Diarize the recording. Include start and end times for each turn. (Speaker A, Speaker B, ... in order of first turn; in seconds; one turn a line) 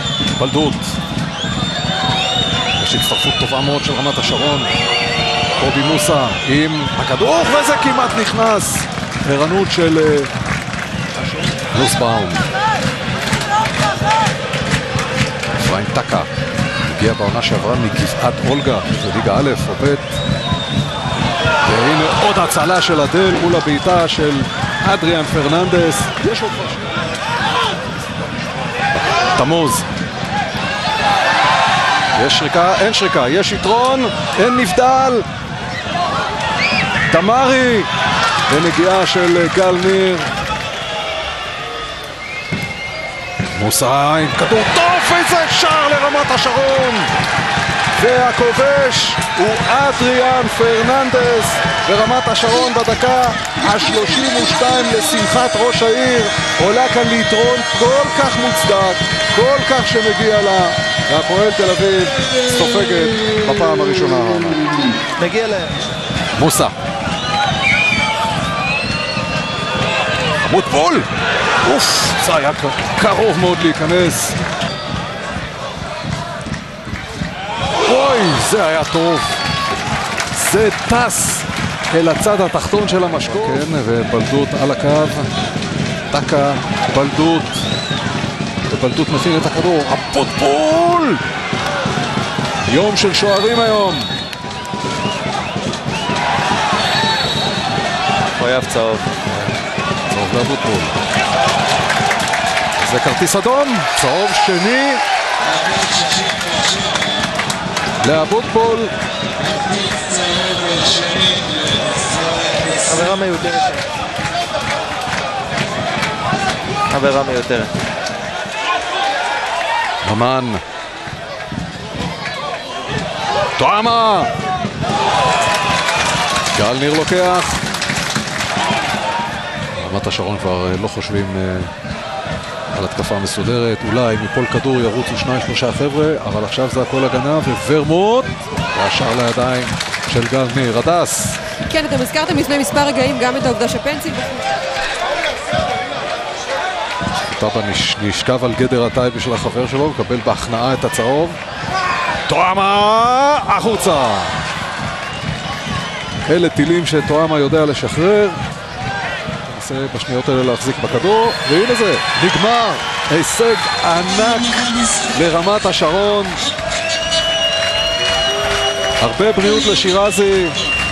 Speaker A: 0.3-1.0
Speaker A: 2.8-4.7
Speaker A: 5.6-10.3
Speaker A: 11.5-12.5
Speaker A: 15.6-16.3
Speaker A: 16.8-20.1
Speaker A: 21.6-26.9
Speaker A: 29.3-29.9
Speaker A: 32.1-35.2
Speaker A: 37.1-37.9
Speaker A: 38.5-40.3
Speaker A: 43.5-47.1
Speaker A: 48.0-64.6
Speaker B: 65.2-65.7
Speaker A: 66.3-66.7
Speaker A: 70.4-71.1
Speaker A: 71.6-74.4
Speaker A: 77.8-79.4
Speaker A: 80.3-85.3
Speaker A: 86.1-87.7
Speaker A: 88.7-91.2
Speaker A: 92.7-94.1
Speaker B: 98.4-99.0
Speaker A: 100.1-101.0
Speaker A: 102.8-105.0
Speaker A: 108.0-108.9
Speaker B: 112.7-113.8
Speaker B: 116.9-117.7
Speaker A: 120.0-120.6
Speaker A: 123.5-124.3
Speaker A: 126.5-127.6
Speaker A: 129.7-131.7
Speaker A: 132.7-141.4
Speaker C: 141.7-144.5
Speaker A: 147.2-151.4
Speaker A: 152.2-154.3
Speaker A: 156.2-158.4
Speaker A: 159.4-166.4
Speaker A: 169.0-170.6